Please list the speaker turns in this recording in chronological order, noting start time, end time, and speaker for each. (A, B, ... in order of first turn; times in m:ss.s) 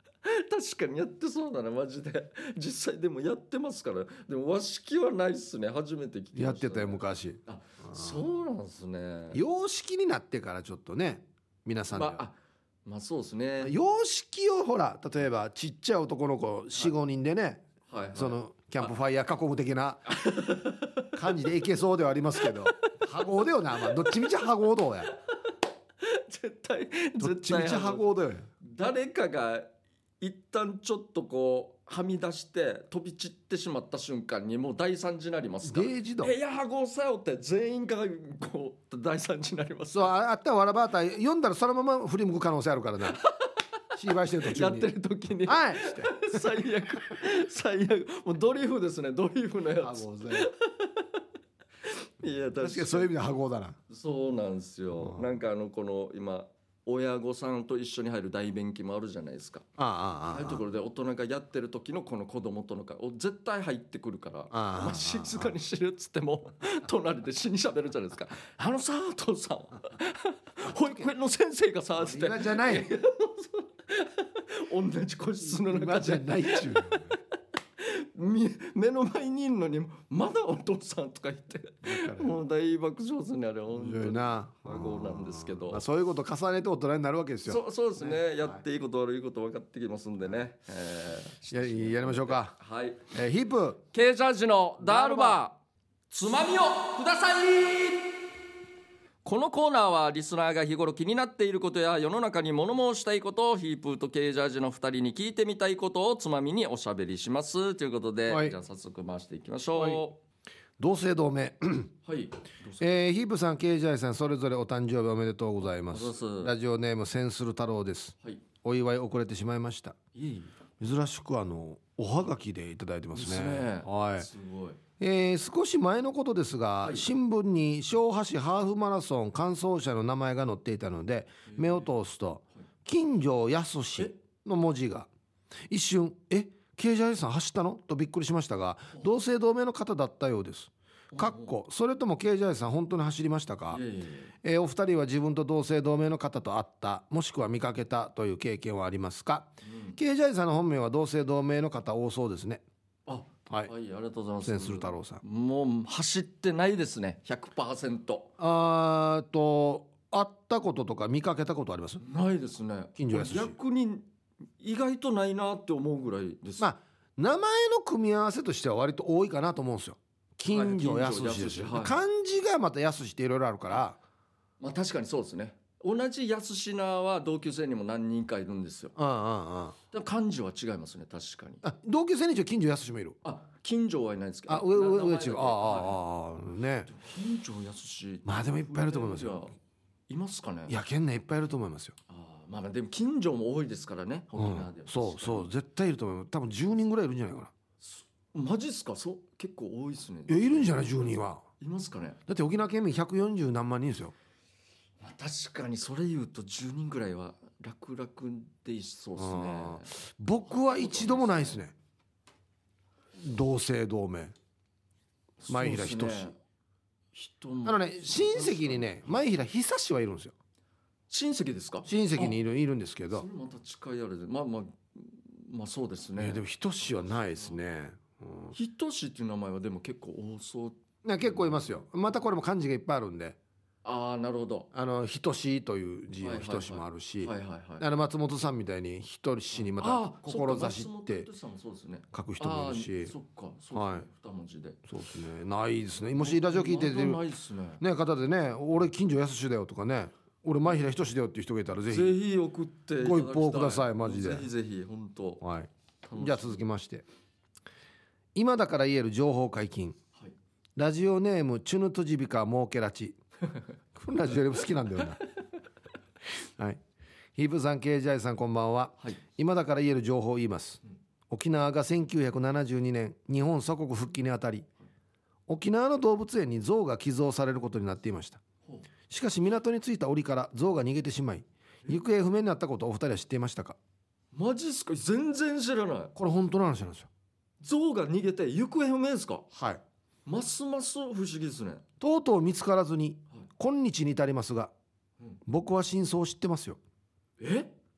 0:00.2-0:09.4 A
0:06.3-0:08.2 B
0:09.3-0:12.2 B
0:11.9-0:12.3 A
0:12.8-0:13.7 A
0:13.6-0:17.6 B
0:17.9-0:18.9 A
0:18.1-0:20.1 B
0:20.1-0:21.1 A
0:21.1-0:25.1 B
0:22.4-0:23.0 A
0:26.0-0:28.0 A
0:27.2-0:28.4 B
0:28.6-0:29.7 A
0:30.2-0:40.1 A
0:35.6-0:36.3 B
0:39.9-0:43.2 B
0:43.1-0:43.5 A
0:44.0-0:44.9 B
0:44.4-0:51.2 A
0:45.4-0:46.4 B
0:49.8-0:50.5 B
0:51.8-0:53.1 A
0:52.6-0:53.8 B
0:53.9-0:59.6 A
0:59.8-1:00.6 B
1:00.3-1:17.2 A
1:04.5-1:05.5 B
1:10.7-1:11.1 B
1:12.0-1:12.9 B
1:15.4-1:17.2 B
1:17.8-1:25.8 A
1:21.8-1:22.4 B
1:23.7-1:28.6 B
1:27.4-1:33.0 A
1:31.5-1:32.5 B
1:33.1-1:33.8 B
1:33.9-1:35.6 A
1:34.8-1:35.4 B
1:36.1-1:38.2 A
1:39.2-1:50.2 A
1:48.3-1:48.5 B
1:49.8-1:50.0 B
1:50.8-1:51.9 B
1:52.0-1:52.9 A
1:52.8-2:00.0 B
1:55.9-1:56.5 A
2:00.1-2:00.5 A
2:00.8-2:04.3 B
2:03.1-2:04.8 A
2:05.0-2:15.1 B
2:06.8-2:07.1 A
2:11.5-2:11.9 A
2:15.7-2:23.8 B
2:21.1-2:21.5 A
2:23.7-2:24.3 A
2:24.4-2:32.6 B
2:29.6-2:30.0 A
2:33.1-2:38.3 A
2:34.4-2:35.2 B
2:38.4-2:42.0 B
2:42.0-2:44.0 A
2:43.0-2:43.5 B
2:44.6-2:46.7 A
2:46.6-2:54.0 B
2:50.5-2:52.0 A
2:54.6-2:58.9 A
2:59.0-2:59.8 B
2:59.9-3:01.6 A
3:01.6-3:03.2 B
3:03.2-3:06.0 A
3:04.5-3:06.9 B
3:06.9-3:09.6 A
3:08.2-3:09.4 B
3:10.1-3:10.7 A
3:10.7-3:11.9 B
3:12.1-3:15.5 A
3:14.4-3:17.5 B
3:17.8-3:22.2 A
3:20.3-3:21.4 B
3:22.3-3:24.1 B
3:25.0-3:31.6 A
3:29.2-3:31.7 B
3:33.2-3:34.3 B
3:35.4-3:36.4 A
3:35.5-3:36.3 B
3:37.1-3:39.2 A
3:37.6-3:40.3 B
3:41.1-3:42.4 A
3:41.8-3:43.2 B
3:43.1-3:46.4 A
3:46.2-3:48.5 B
3:47.0-3:47.6 A
3:48.5-3:51.8 A
3:51.0-3:53.4 B
3:53.8-3:54.7 A
3:54.7-4:01.3 B
3:56.2-3:57.8 A
3:59.5-4:04.8 A
4:02.1-4:03.1 B
4:03.7-4:04.0 B
4:04.9-4:07.2 B
4:06.2-4:07.8 A
4:07.8-4:12.2 B
4:11.9-4:15.4 A
4:13.0-4:14.5 B
4:15.4-4:17.0 B
4:16.0-4:16.6 A
4:18.3-4:20.0 B
4:20.8-4:23.2 B
4:23.9-4:25.2 B
4:26.4-4:26.8 B
4:27.4-4:34.7 B
4:35.5-4:38.4 B
4:39.1-4:43.8 B
4:44.3-4:46.1 A
4:46.2-4:47.1 B
4:47.6-4:49.4 A
4:49.5-4:49.8 B
4:50.2-4:51.8 A
4:52.0-4:54.7 B
4:55.5-4:56.8 B
4:57.4-4:57.7 A